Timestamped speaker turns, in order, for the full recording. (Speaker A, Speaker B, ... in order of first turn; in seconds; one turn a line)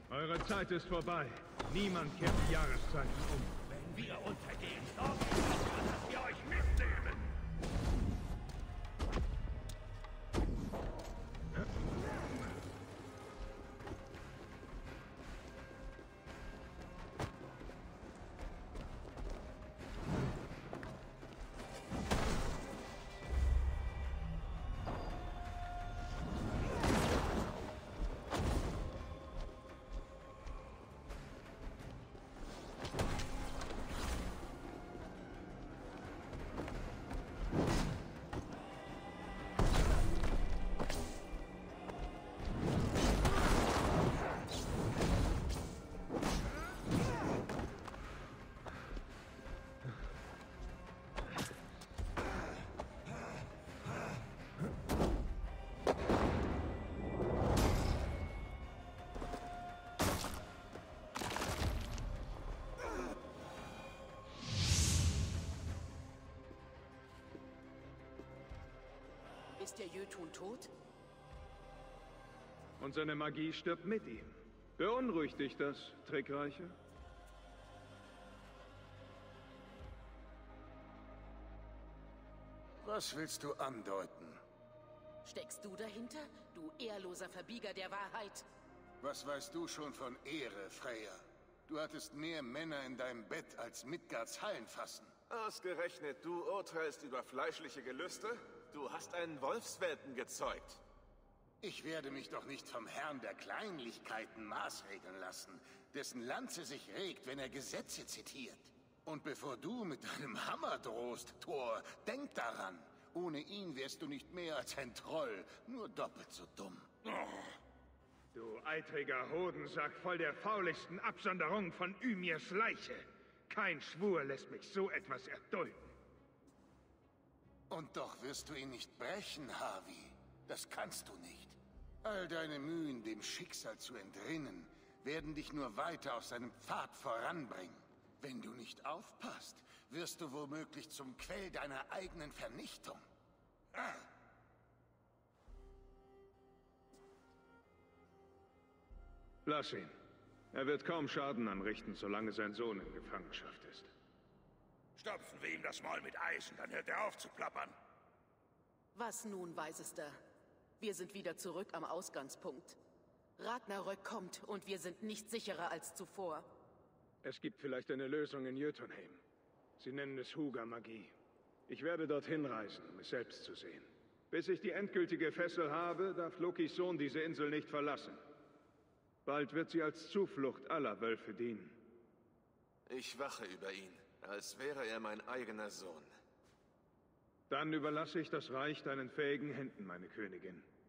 Speaker A: 0.1-3.6
Speaker B: 3.8-7.3
Speaker C: 69.6-70.7
Speaker A: 72.8-76.8
Speaker D: 82.8-84.4
Speaker C: 85.2-88.5
Speaker D: 89.0-95.1
Speaker E: 95.3-100.8
Speaker D: 101.6-116.9
Speaker F: 117.2-117.5
Speaker A: 118.3-125.9
Speaker D: 127.7-143.0
Speaker A: 149.4-149.9
Speaker A: 150.5-153.9
Speaker F: 154.9-157.7
Speaker C: 158.9-160.2
Speaker C: 160.8-162.8
Speaker C: 163.4-166.5
Speaker A: 167.2-169.2
Speaker A: 169.8-171.1
Speaker A: 171.7-178.2
Speaker A: 179.2-181.8
Speaker E: 182.9-186.1
Speaker A: 187.5-190.7